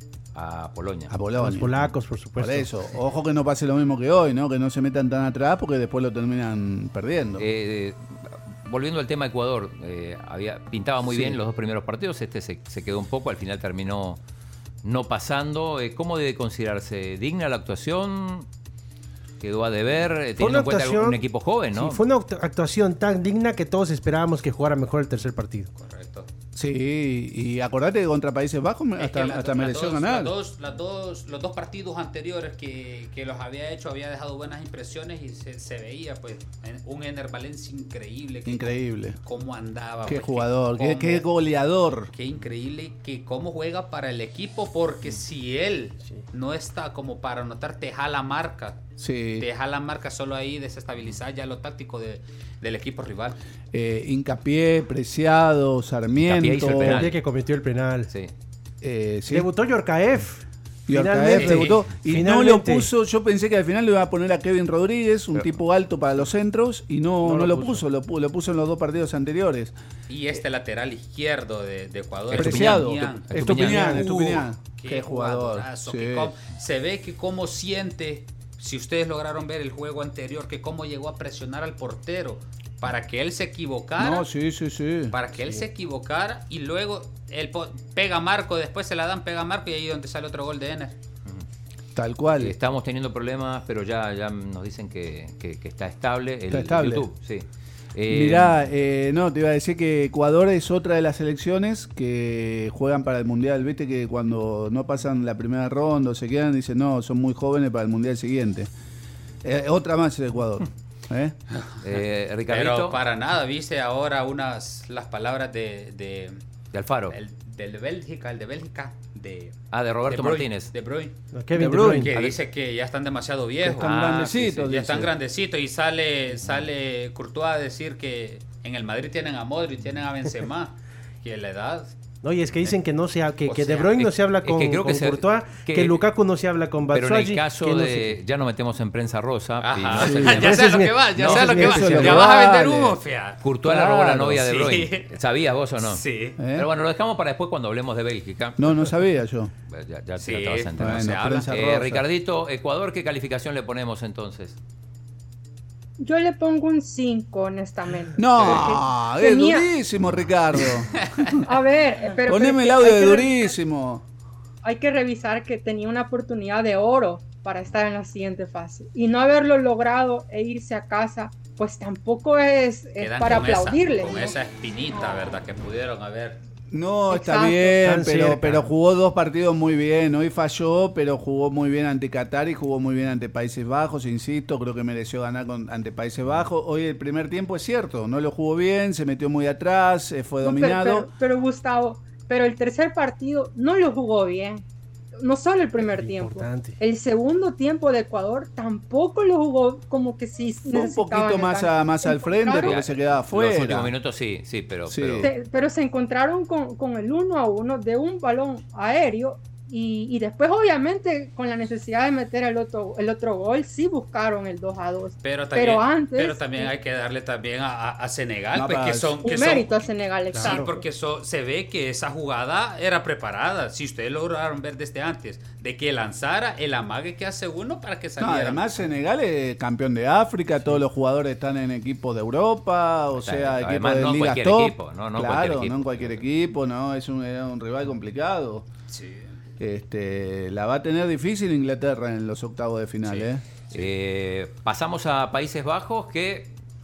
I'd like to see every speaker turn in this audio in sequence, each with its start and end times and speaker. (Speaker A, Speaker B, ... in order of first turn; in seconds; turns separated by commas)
Speaker A: 0.3-1.1, Speaker B: 1.1-1.7, Speaker C: 1.4-2.7, Speaker B: 2.4-7.5, Speaker A: 7.4-14.2, Speaker B: 11.1-11.4, Speaker A: 14.8-18.4, Speaker A: 19.4-22.0, Speaker C: 20.4-21.2, Speaker C: 21.7-25.7, Speaker D: 25.7-26.3, Speaker B: 26.5-30.3, Speaker D: 29.0-38.7, Speaker B: 38.4-39.2, Speaker D: 39.2-41.2, Speaker B: 40.0-42.1, Speaker D: 42.1-48.8, Speaker B: 49.0-49.5, Speaker D: 49.4-53.4, Speaker B: 53.7-57.0, Speaker A: 56.2-57.2, Speaker C: 56.6-58.1, Speaker B: 58.8-59.5, Speaker C: 59.3-62.9, Speaker B: 60.9-69.7, Speaker D: 61.4-61.7, Speaker C: 67.2-67.8, Speaker D: 70.1-73.5, Speaker A: 72.3-74.1, Speaker B: 72.3-76.3, Speaker C: 73.4-74.5, Speaker D: 74.8-84.2, Speaker B: 84.0-85.2, Speaker D: 85.1-91.0, Speaker B: 92.0-92.5, Speaker A: 92.4-98.6, Speaker B: 96.5-97.0, Speaker B: 98.1-108.7, Speaker B: 109.4-111.3, Speaker A: 111.8-113.0, Speaker D: 112.5-116.4, Speaker A: 116.7-117.2, Speaker D: 117.1-119.5, Speaker A: 119.7-120.7, Speaker D: 120.1-121.2, Speaker C: 121.3-122.1, Speaker B: 121.5-122.1, Speaker D: 121.8-131.9, Speaker B: 123.6-125.1, Speaker C: 132.2-138.2, Speaker D: 133.5-134.0, Speaker A: 134.0-136.0, Speaker A: 136.9-140.6, Speaker D: 139.6-143.4, Speaker B: 140.0-140.5, Speaker C: 140.2-142.3, Speaker A: 141.2-142.0, Speaker B: 141.3-143.0, Speaker A: 143.4-146.0, Speaker B: 143.6-144.4, Speaker D: 144.3-145.1, Speaker D: 145.8-146.4, Speaker B: 146.4-146.7, Speaker A: 146.5-148.9, Speaker B: 148.6-149.5, Speaker A: 149.7-154.6, Speaker D: 150.2-151.5, Speaker B: 150.8-152.0, Speaker E: 156.0-159.7, Speaker B: 158.2-161.0, Speaker E: 161.4-163.5, Speaker B: 162.3-164.0, Speaker E: 164.6-174.3, Speaker D: 173.0-176.4, Speaker B: 176.7-191.1, Speaker E: 177.1-177.7, Speaker C: 177.8-178.7, Speaker E: 190.4-194.6, Speaker E: 195.2-202.8, Speaker C: 195.9-196.8, Speaker B: 200.7-203.9, Speaker A: 202.6-205.3, Speaker B: 204.9-205.3, Speaker E: 205.2-216.7, Speaker D: 215.2-219.8, Speaker B: 218.5-219.2, Speaker E: 219.2-220.8, Speaker C: 220.3-220.7, Speaker D: 220.4-228.7, Speaker B: 228.2-238.7, Speaker A: 233.2-236.2, Speaker D: 238.9-239.3, Speaker B: 239.6-243.4, Speaker A: 243.7-246.5